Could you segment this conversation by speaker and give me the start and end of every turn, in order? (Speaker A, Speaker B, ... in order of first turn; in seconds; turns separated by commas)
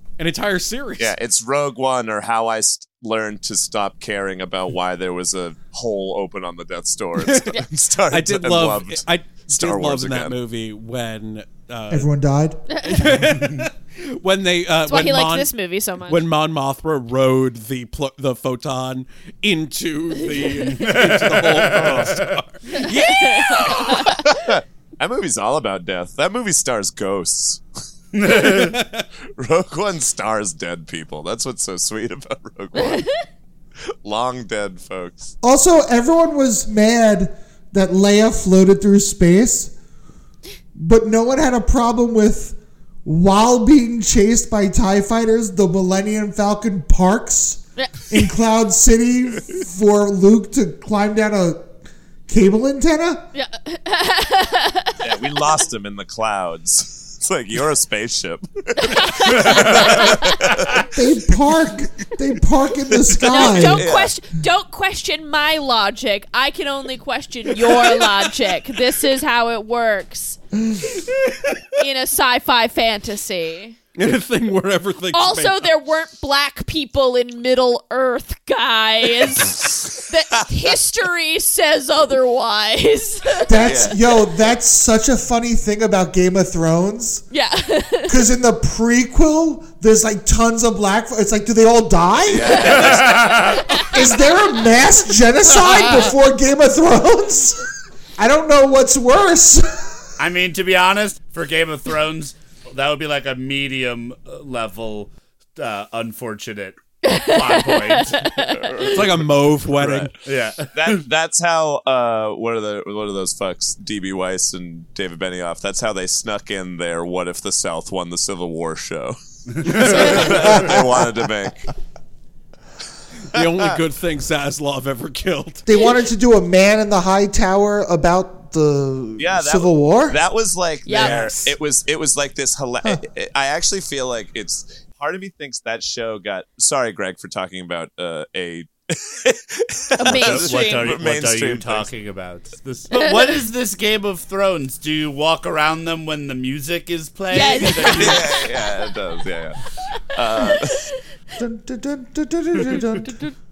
Speaker A: 0.2-1.1, Speaker B: 1.0-10.4, Speaker A: 7.2-12.1, Speaker C: 11.9-12.6, Speaker A: 12.8-15.5, Speaker D: 14.8-16.2, Speaker A: 16.0-23.9, Speaker E: 20.7-22.3, Speaker B: 21.7-22.0, Speaker D: 22.8-24.2, Speaker B: 23.6-27.6, Speaker E: 28.1-28.8, Speaker A: 28.4-29.0, Speaker B: 29.4-33.1, Speaker D: 32.9-33.1, Speaker B: 34.0-35.3, Speaker C: 35.4-39.7, Speaker C: 40.7-51.7, Speaker D: 47.8-48.3, Speaker C: 52.3-53.3, Speaker D: 53.3-54.9, Speaker B: 55.0-60.9, Speaker D: 58.9-60.4, Speaker C: 60.9-63.9, Speaker B: 63.1-64.2, Speaker D: 63.2-70.4, Speaker D: 71.8-73.8, Speaker A: 74.0-75.7, Speaker D: 75.1-83.7, Speaker C: 83.5-87.2, Speaker B: 83.6-84.0, Speaker D: 87.3-88.2, Speaker C: 88.1-93.0, Speaker B: 92.3-93.5, Speaker E: 92.7-93.6, Speaker D: 93.6-93.9, Speaker C: 93.8-97.7, Speaker E: 95.7-96.1, Speaker C: 98.2-100.1, Speaker E: 100.2-108.3, Speaker D: 107.1-108.9, Speaker B: 108.4-110.1, Speaker A: 108.8-110.1, Speaker E: 110.2-111.0, Speaker B: 110.7-121.7, Speaker E: 119.5-120.8, Speaker C: 120.0-121.2, Speaker A: 123.3-125.6, Speaker B: 123.4-123.8, Speaker C: 125.7-130.2, Speaker B: 129.2-141.9, Speaker D: 130.8-131.5, Speaker A: 130.9-131.4, Speaker D: 140.0-140.9, Speaker E: 140.1-148.2, Speaker D: 142.9-143.3, Speaker D: 147.3-148.8, Speaker B: 147.7-149.6, Speaker B: 150.1-150.8, Speaker D: 150.2-150.9, Speaker C: 151.4-153.3